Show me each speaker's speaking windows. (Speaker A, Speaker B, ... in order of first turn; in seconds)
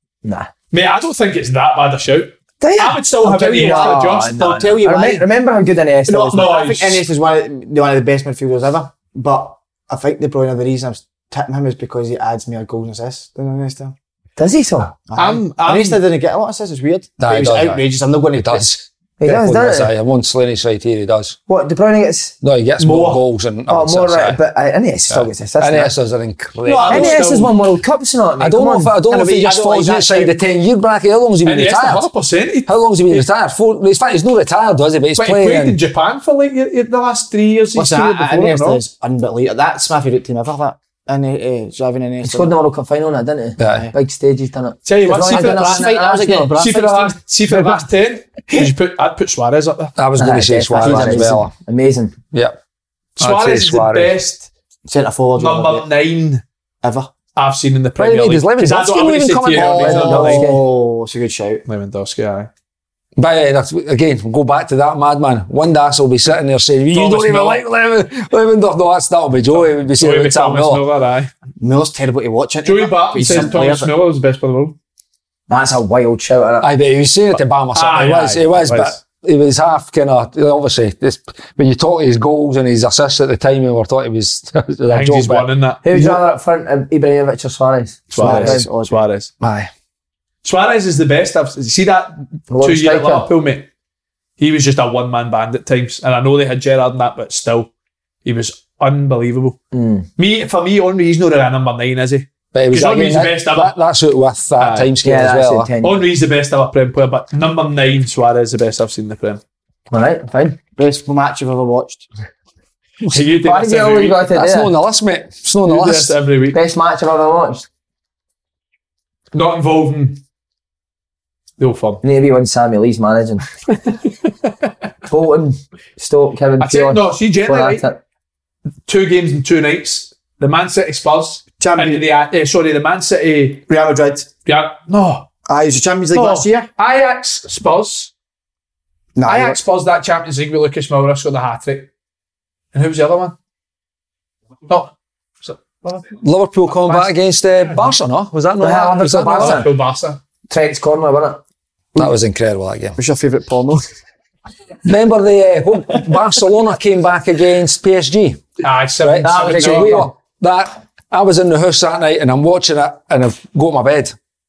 Speaker A: 0.2-0.5, 2.6-6.5, 14.4-14.9, 19.2-19.9, 21.5-22.4, 23.7-25.9, 26.9-28.9, 42.2-46.6, 50.2-52.2, 59.8-60.6, 75.5-76.7, 85.8-88.7, 92.5-93.3, 99.7-100.1, 105.0-106.0, 109.9-110.6, 113.4-114.7, 116.5-117.7, 122.0-123.4, 125.0-128.0, 148.6-149.7, 150.5-151.4, 159.2-160.1
Speaker B: 0.7-4.8, 6.1-7.0, 15.2-16.0, 22.8-23.2, 26.6-27.5, 31.4-33.2, 35.1-38.8, 44.8-46.0, 46.6-49.9, 53.2-54.5, 55.4-56.4, 57.4-60.5, 61.6-62.5, 66.9-67.6, 69.5-71.3, 72.6-74.8, 77.7-79.0, 84.9-85.8, 88.1-89.3, 90.4-93.7, 94.4-97.7, 98.2-99.6, 100.2-103.7, 104.6-104.9, 105.8-109.4, 113.1-114.2, 115.7-116.6, 119.3-120.2, 121.6-122.0, 126.6-127.9, 128.9-133.7, 134.4-135.3, 136.1-138.1, 139.2-141.9, 142.7-143.3, 145.4-146.1, 146.7-147.1, 149.0-150.2, 158.6-160.1
Speaker C: 3.2-5.2, 6.1-13.9, 15.1-18.8, 29.1-30.3, 37.8-42.5, 45.2-47.8, 50.7-51.4, 54.9-55.8, 56.8-57.1, 59.5-61.6, 71.6-73.9, 88.2-89.0, 110.8-112.1, 131.6-132.0, 133.7-134.3, 135.5-136.7, 139.1-139.6, 152.9-153.8
Speaker D: 17.2-21.4, 22.4-24.4, 25.1-27.2, 28.4-32.1, 32.6-35.8, 43.6-43.9, 50.0-51.5, 52.3-52.6, 53.2-54.1, 58.0-60.3, 63.1-70.8, 76.6-86.2, 89.4-89.7, 102.5-105.7, 114.3-116.2, 146.2-149.7, 151.9-153.0, 154.8-164.2